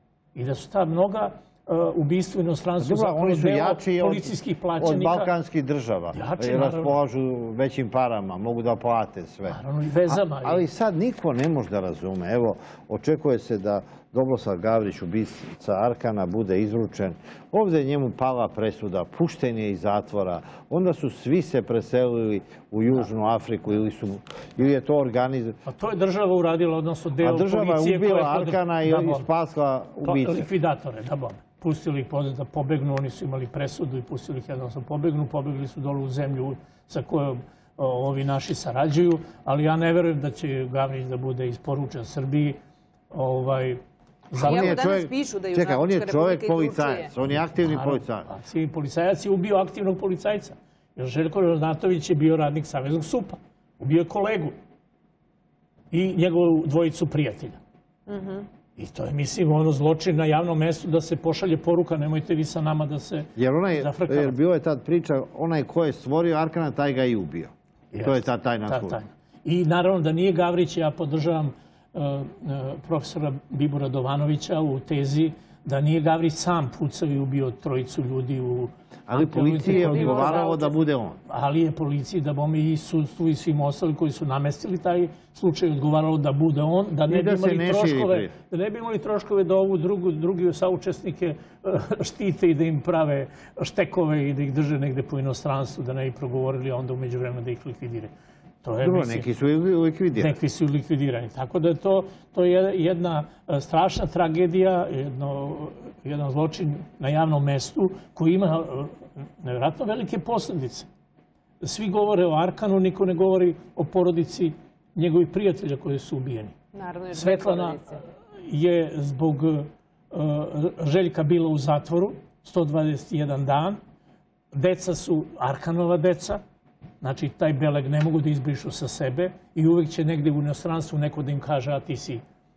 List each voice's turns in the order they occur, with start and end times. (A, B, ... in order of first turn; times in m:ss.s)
0:00.4-0:05.3 A
0:02.8-0:25.6 B
0:06.1-0:07.0 A
0:09.5-0:10.6 A
0:25.6-0:29.3 A
0:27.2-0:30.5 B
0:30.0-0:42.6 A
0:43.1-0:44.8 A
0:44.4-0:48.3 B
0:44.4-0:47.1 C
0:47.3-0:54.6 A
0:55.9-0:57.6 A
0:58.1-0:58.5 C
0:58.8-1:04.4 A
1:03.4-1:07.5 B
1:07.9-1:20.6 A
1:08.0-1:09.0 B
1:19.1-1:21.2 B
1:19.8-1:20.7 C
1:21.3-1:38.1 A
1:27.1-1:28.3 B
1:38.6-1:39.3 A
1:38.8-1:40.4 B
1:40.2-1:50.9 A
1:51.6-1:56.6 A
1:56.7-1:58.0 C
1:57.1-2:03.8 A
2:04.5-2:06.4 A
2:07.0-2:12.2 A